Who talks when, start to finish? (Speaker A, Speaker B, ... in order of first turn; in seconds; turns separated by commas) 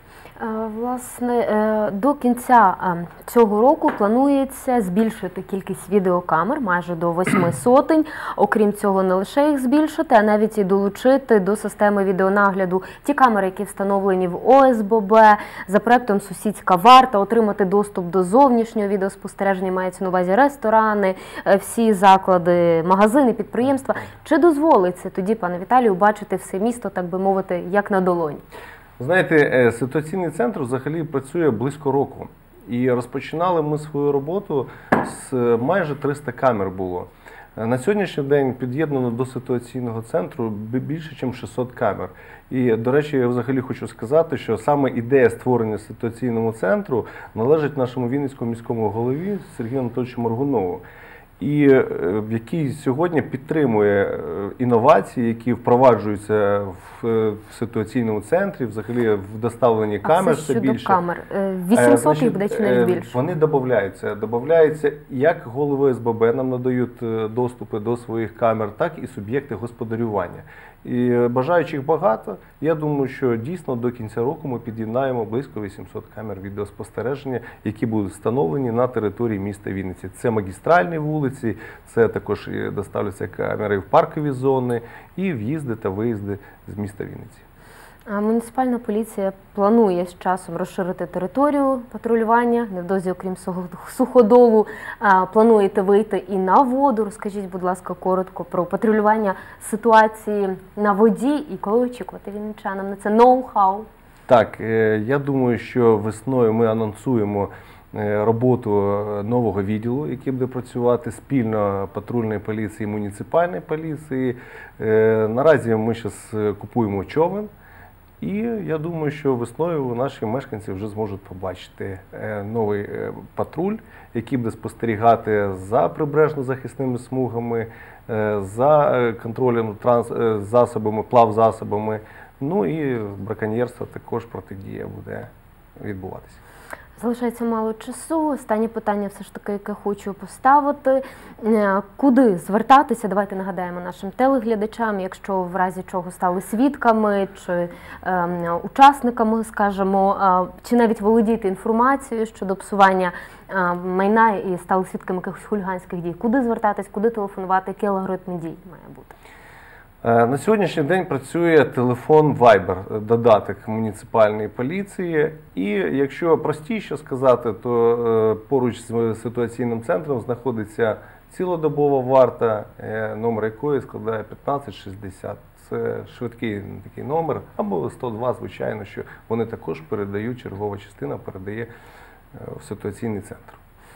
Speaker A: 0.4-28.4, Speaker B: 29.0-50.8, Speaker B: 51.4-61.0, Speaker A: 60.0-63.1, Speaker B: 61.7-87.4, Speaker A: 88.1-103.9, Speaker B: 104.3-117.5, Speaker B: 118.2-136.4, Speaker A: 137.0-159.1, Speaker B: 160.0-181.7, Speaker B: 182.3-183.6